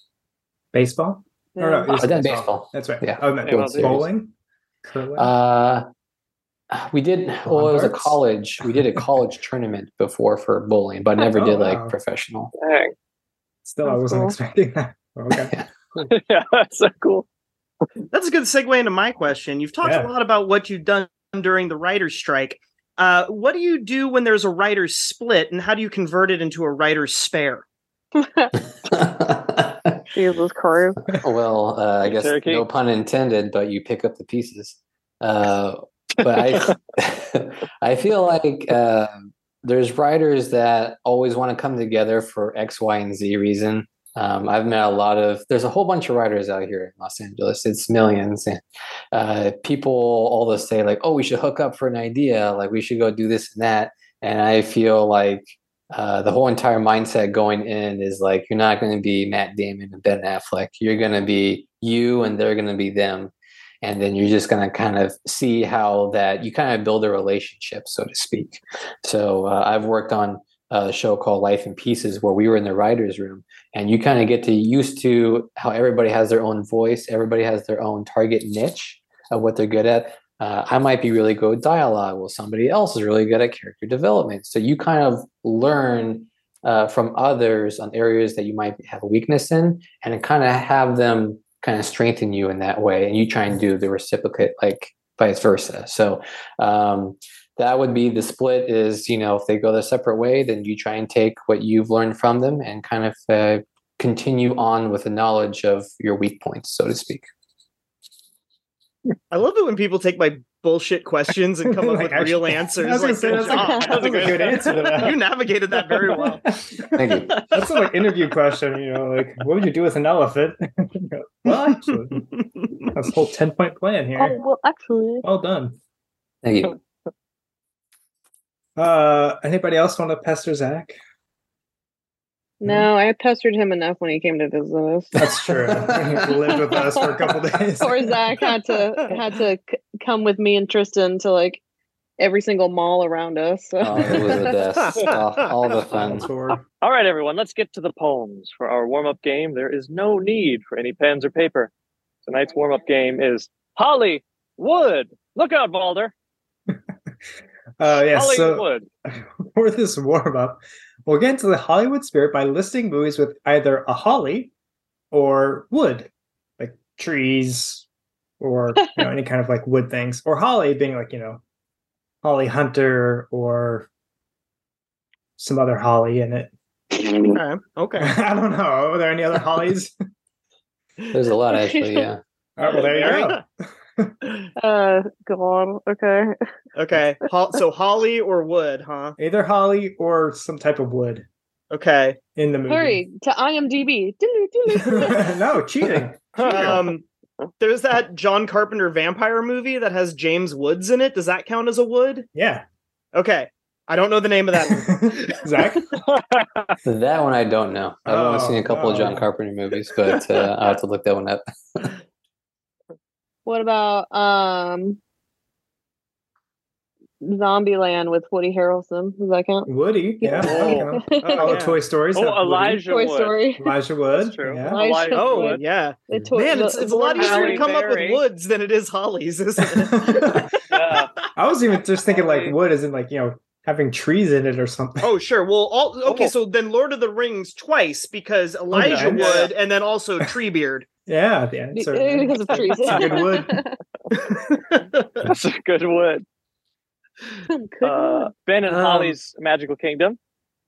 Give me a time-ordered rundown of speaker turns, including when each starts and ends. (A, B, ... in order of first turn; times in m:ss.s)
0:00.7-0:04.3 A
0:01.6-0:02.0 B
0:01.9-0:04.1 C
0:03.4-0:04.0 D
0:04.8-0:05.3 A
0:05.2-0:05.9 C
0:06.7-0:12.5 C
0:07.4-0:09.0 A
0:11.3-0:12.0 A
0:12.6-0:12.9 D
0:13.6-0:15.5 A
0:13.8-0:14.3 B
0:15.3-0:15.7 C
0:16.1-0:17.2 D
0:18.1-0:27.6 E
0:19.8-0:20.1 A
0:28.2-0:28.5 B
0:28.9-0:30.0 C
0:30.1-0:31.0 B
0:31.0-0:48.6 C
0:32.0-0:32.7 D
0:49.1-1:47.3 C
1:49.3-1:54.3 E
1:51.6-1:55.2 A
1:53.4-1:54.4 B
1:53.6-1:54.9 D
1:54.9-1:56.4 E
1:56.1-2:02.2 A
1:56.9-1:57.3 C
1:57.3-1:57.6 E
2:01.5-2:02.9 E
2:02.9-2:04.4 A
2:04.2-2:05.2 B
2:05.2-2:05.8 A
2:06.4-2:06.8 C
2:08.8-2:11.0 A
2:12.6-2:15.1 B
2:15.2-2:18.1 A
2:15.2-2:16.2 C
2:17.8-2:21.6 B
2:22.2-2:24.5 B
2:23.8-2:26.3 C
2:24.8-2:25.2 E
2:25.9-2:26.6 A
2:26.8-2:31.7 D
2:32.2-2:36.1 D
2:37.8-2:44.5 A
2:38.1-2:38.9 D
2:45.1-2:47.9 A
2:48.4-2:51.4 A
2:52.2-2:53.9 A
2:55.4-2:56.5 A
2:57.0-2:57.4 B
2:57.3-2:58.1 E
2:58.0-2:59.9 A
3:01.1-3:02.2 C
3:01.5-3:02.1 B
3:02.6-3:03.4 A
3:02.7-3:03.4 E
3:02.7-3:03.1 D
3:04.6-3:06.4 B
3:06.7-3:09.2 E
3:09.2-3:11.2 A
3:11.7-3:12.2 E
3:12.3-3:13.0 A
3:12.7-3:15.3 B
3:14.7-3:16.8 A
3:16.4-3:16.8 D
3:16.4-3:17.0 E
3:17.6-3:22.3 E
3:22.3-3:22.6 A
3:23.1-3:25.4 E
3:24.7-3:26.0 A
3:26.1-3:26.7 D
3:26.8-3:32.0 C
3:28.0-3:29.3 A
3:33.4-3:35.0 B
3:37.2-3:39.7 B
3:39.7-3:42.8 A
3:40.2-3:41.6 B
3:40.4-3:40.9 D
3:41.2-3:41.8 E
3:42.1-3:43.4 D
3:42.8-3:43.6 B
3:43.6-3:44.8 A
3:44.2-3:45.6 D
3:44.7-3:47.7 B
3:45.1-3:50.5 E
3:47.1-3:48.2 D
3:49.6-3:50.5 A
3:50.7-3:51.1 D
3:51.3-3:55.1 A
3:52.1-3:52.6 D
3:55.0-4:00.9 E
3:58.7-3:59.4 A
3:58.8-3:59.5 D
4:01.0-4:03.6 A
4:01.7-4:03.8 B
4:02.5-4:03.2 D
4:04.1-4:05.3 E
4:05.2-4:06.2 D
4:07.5-4:08.3 B
4:07.8-4:10.2 D
4:08.7-4:09.1 E